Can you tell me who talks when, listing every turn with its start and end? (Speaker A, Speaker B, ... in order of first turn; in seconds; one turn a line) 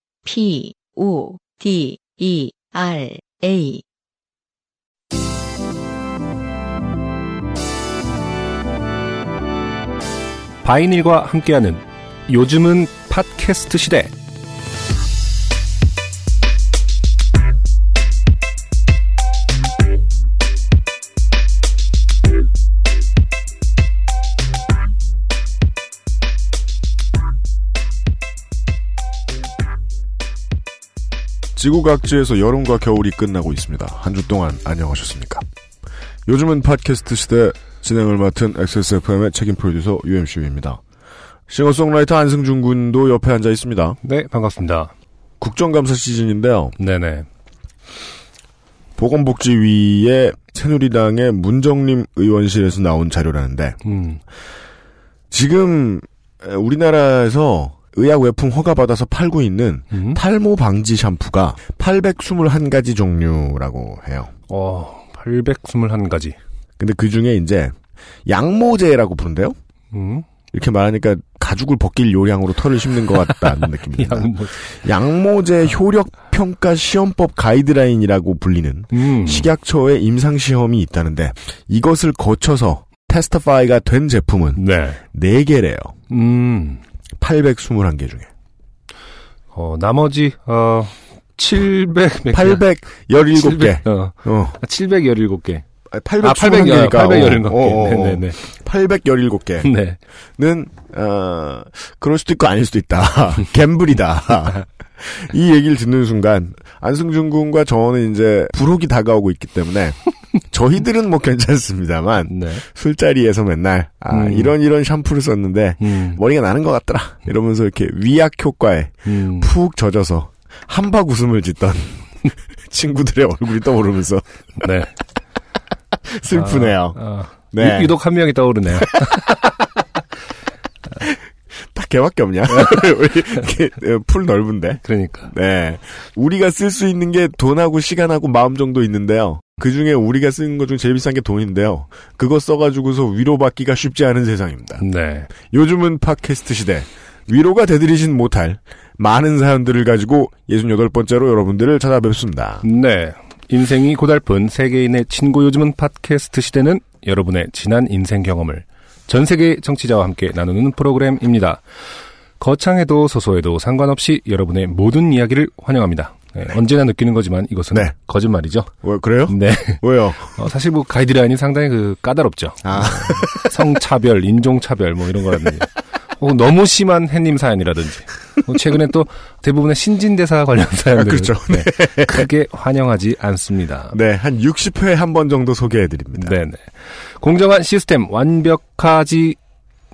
Speaker A: 0.2-3.8
Speaker B: 10.6-14.1
Speaker C: 31.6-35.4
Speaker C: 36.3-40.8
Speaker C: 41.5-44.0
Speaker B: 44.0-44.9
Speaker C: 45.4-46.8
Speaker B: 46.8-47.2
Speaker C: 49.0-53.8
Speaker B: 53.8-54.2
Speaker C: 55.3-64.3
Speaker B: 59.9-60.2
Speaker B: 64.5-66.3
Speaker C: 66.8-69.5
Speaker B: 69.9-70.3
Speaker C: 70.5-85.9
Speaker B: 73.5-74.6
Speaker B: 78.9-79.5
Speaker B: 84.5-85.0
Speaker B: 86.1-86.8
Speaker C: 87.2-88.3
Speaker B: 89.5-92.6
Speaker C: 92.3-94.5
Speaker B: 93.3-95.6
Speaker C: 95.9-99.7
Speaker B: 96.2-98.4
Speaker B: 99.6-100.0
Speaker C: 100.4-110.0
Speaker C: 110.5-122.0
Speaker B: 112.3-112.6
Speaker B: 114.1-114.5
Speaker B: 115.8-116.2
Speaker B: 119.0-119.5
Speaker C: 122.7-124.2
Speaker B: 124.6-124.9
Speaker C: 126.1-127.0
Speaker B: 126.3-129.4
Speaker C: 127.5-128.0
Speaker C: 131.7-152.6
Speaker B: 132.5-132.8
Speaker B: 134.8-135.3
Speaker B: 144.8-145.3
Speaker B: 152.6-161.6
Speaker B: 162.4-168.7
Speaker C: 168.8-170.3
Speaker B: 169.3-169.8
Speaker B: 170.3-183.9
Speaker C: 172.6-173.5
Speaker C: 180.9-182.3
Speaker C: 183.9-186.3
Speaker B: 186.2-189.4